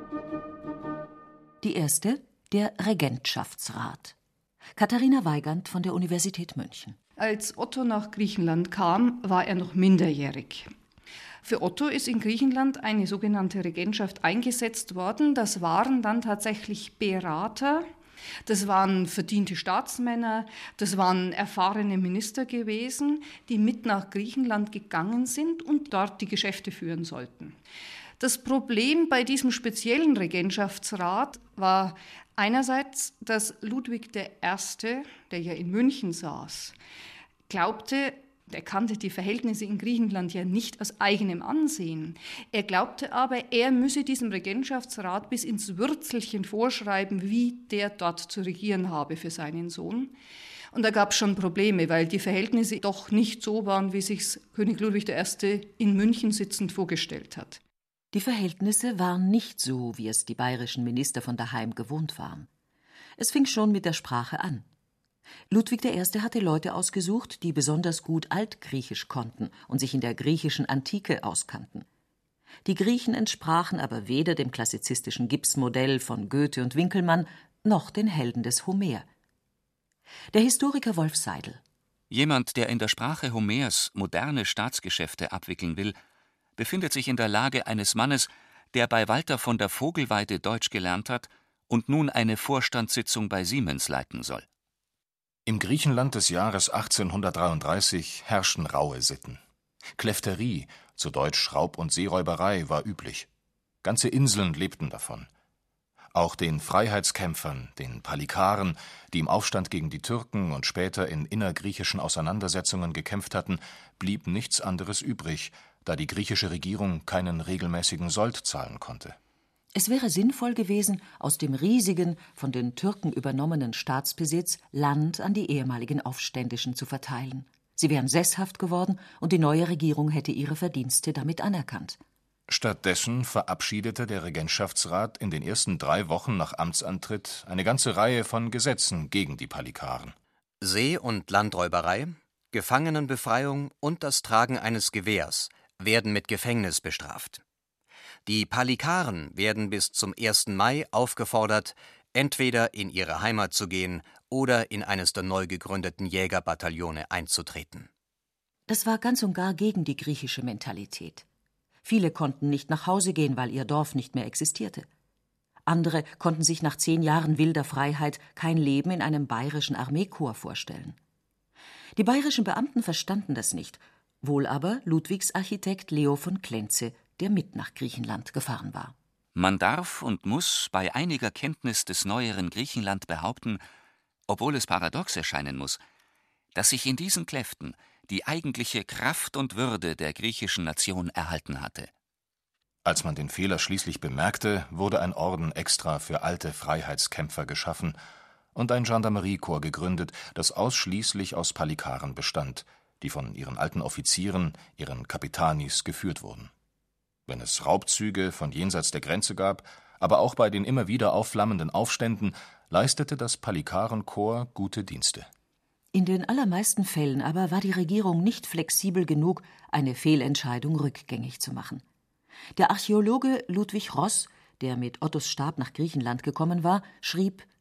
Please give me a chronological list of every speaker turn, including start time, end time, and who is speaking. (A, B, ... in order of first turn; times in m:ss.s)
0:01.6-0:04.2 A
0:04.8-0:07.0 A
0:07.2-0:10.7 B
0:11.4-0:17.9 B
0:18.5-0:27.6 B
0:28.2-0:36.8 B
0:37.5-0:50.1 B
0:50.7-0:57.6 B
0:58.1-1:02.5 A
1:03.2-1:04.7 A
1:05.5-1:11.9 A
1:12.6-1:19.1 A
1:20.3-1:21.6 A
1:22.1-1:26.0 C
1:26.6-1:34.4 C
1:35.5-1:39.4 D
1:40.0-1:43.3 D
1:43.8-1:45.3 D
1:46.1-1:59.2 D
1:59.7-2:12.0 A
2:12.5-2:20.2 D
2:20.6-2:27.4 E
2:28.3-2:37.9 E
2:38.7-2:41.3 A
2:41.8-2:44.9 A
2:45.7-2:51.0 A
2:52.0-2:59.0 A
2:59.4-3:03.6 C
3:04.3-3:05.8 C
3:06.6-3:11.9 C
3:12.8-3:18.0 D
3:18.6-3:26.5 D
3:27.3-3:35.3 D
3:35.9-3:41.8 A
3:42.6-3:47.5 A